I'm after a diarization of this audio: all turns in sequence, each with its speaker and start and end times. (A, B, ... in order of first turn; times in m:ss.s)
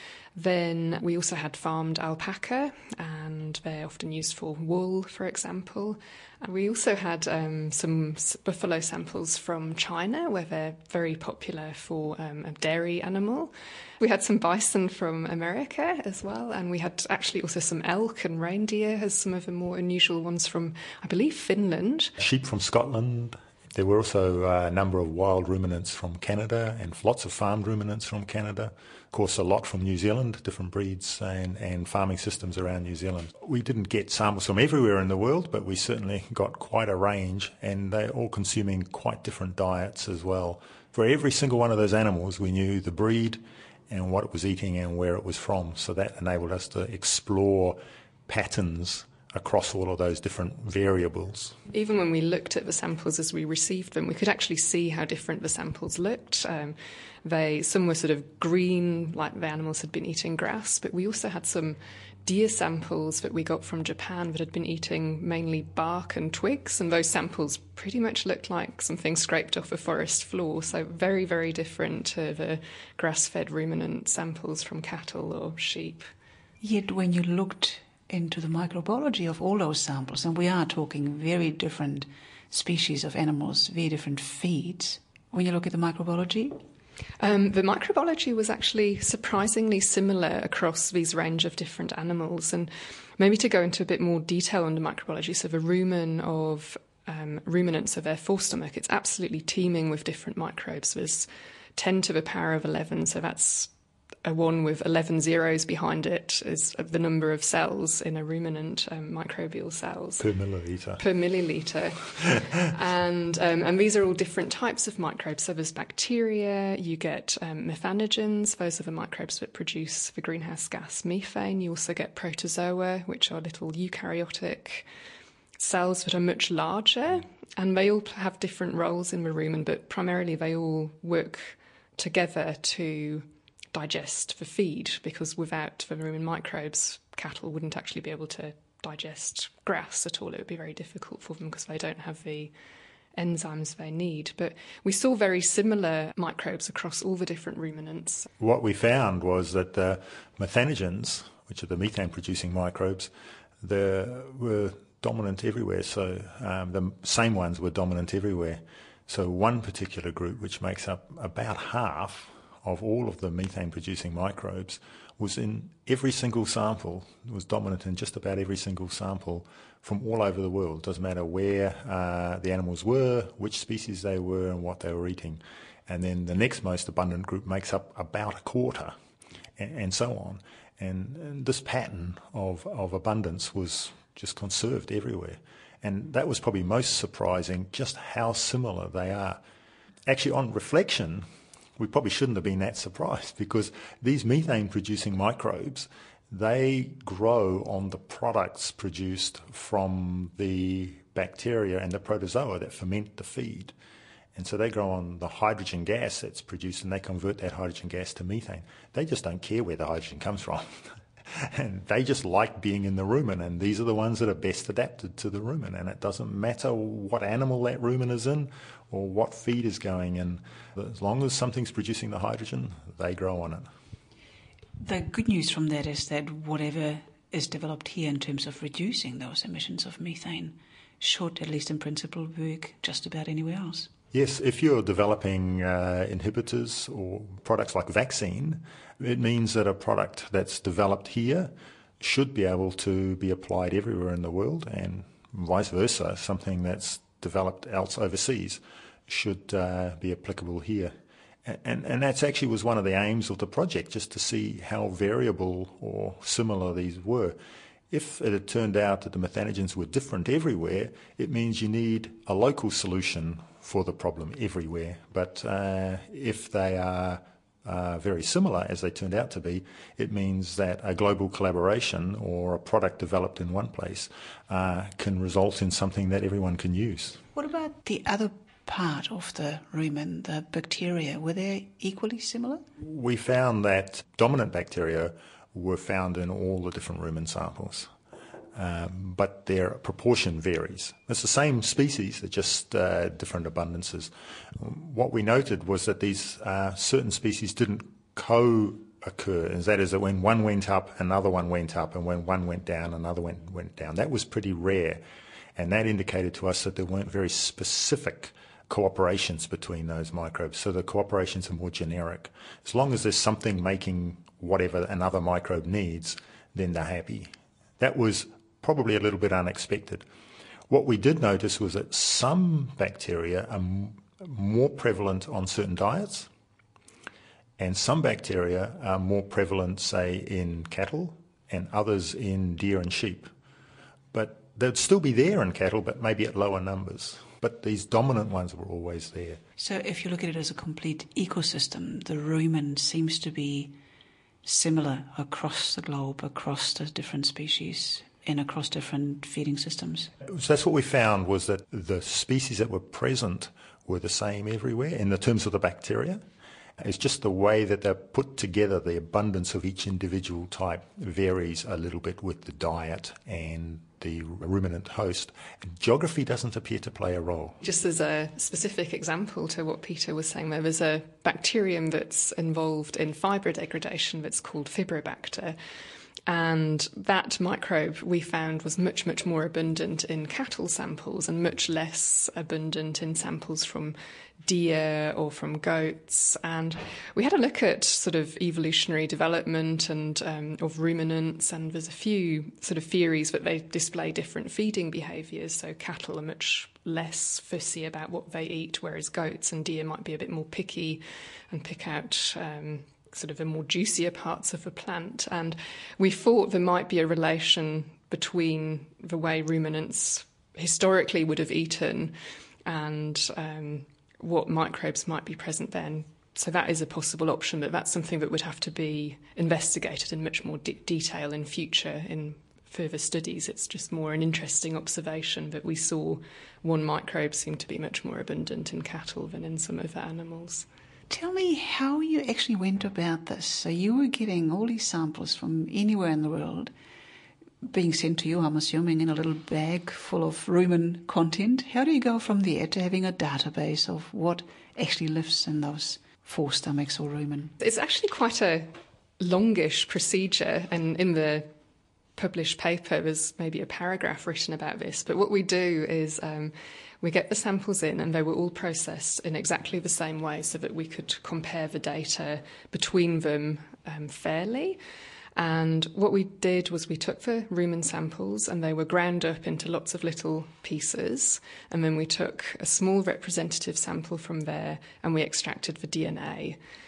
0:00.3-0:22.1 A
0:22.2-0:51.6 B
0:51.7-1:16.0 A
1:16.6-1:26.5 C
1:27.2-1:43.7 A
1:44.2-1:50.2 A
1:50.2-1:51.0 B
1:51.0-2:04.8 A
2:05.6-2:22.5 A
2:23.2-2:28.3 A
2:28.4-2:58.9 B
2:59.6-3:09.4 B
3:10.0-3:11.2 B
3:11.8-3:23.7 B
3:24.3-3:30.6 B
3:31.3-3:43.7 B
3:44.8-3:53.9 C
3:54.1-4:10.9 B
4:11.4-4:17.4 B
4:17.9-4:37.2 B
4:37.3-4:42.6 C
4:42.9-4:47.9 B
4:48.5-5:05.0 B
5:05.6-5:20.0 B
5:20.7-5:26.3 B
5:27.6-5:33.3 B
5:34.1-5:39.4 B
5:39.6-5:43.7 C
5:44.4-5:50.1 C
5:50.3-5:56.2 B
5:56.8-6:07.6 B
6:07.6-6:15.5 A
6:16.3-6:52.1 A
6:52.6-7:10.6 A
7:11.1-7:16.7 C
7:17.6-7:27.5 C
7:27.6-7:31.5 A
7:32.2-7:44.8 A
7:45.4-7:56.6 A